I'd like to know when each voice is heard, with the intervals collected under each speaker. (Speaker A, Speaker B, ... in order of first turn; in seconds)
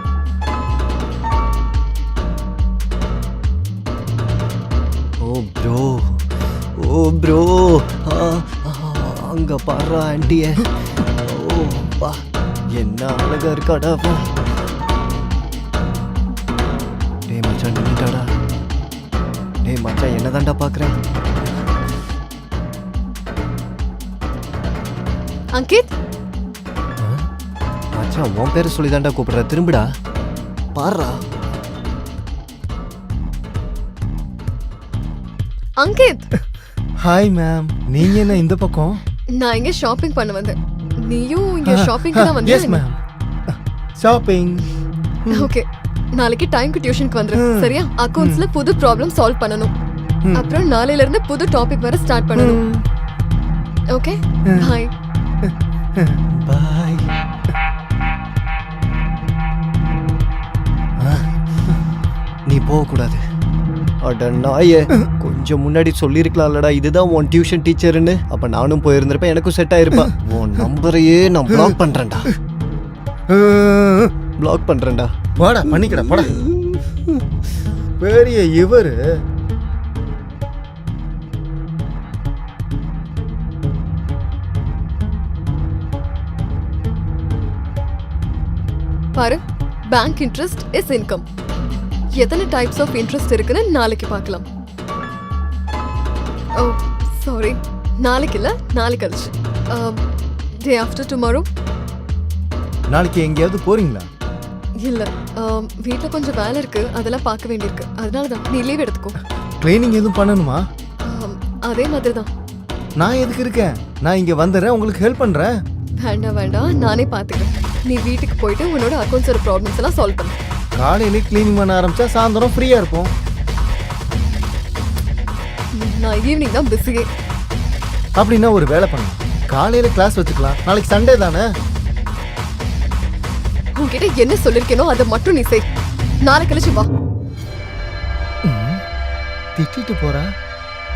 Speaker A: 5.2-6.2, 6.8-10.7, 11.2-12.2, 12.7-14.3, 17.3-18.2, 19.6-20.9, 27.9-29.8, 30.8-31.2, 56.4-57.1, 61.0-61.7, 62.5-63.2, 64.0-72.3, 74.4-75.1, 75.7-77.2
Speaker B: 25.5-25.9, 35.8-36.3, 39.4-42.8, 45.3-49.7, 50.3-52.6, 53.9-54.9, 89.1-91.2, 92.1-94.5, 96.6-100.0, 100.6-101.5, 104.8-109.2, 111.0-112.3, 116.0-120.3, 125.8-127.1, 133.8-135.6, 136.2-136.9
Speaker C: 37.0-39.0, 41.6-43.0, 43.5-44.7, 45.2-45.5, 47.3-48.5, 50.2-50.5, 52.3-52.8, 54.5-54.8, 55.4-56.2, 71.5-71.8, 73.3-74.1, 75.4-76.4, 78.0-79.0, 102.9-104.1, 109.6-110.6, 113.0-115.5, 120.8-123.1, 128.2-131.4, 138.4-138.8, 139.6-140.3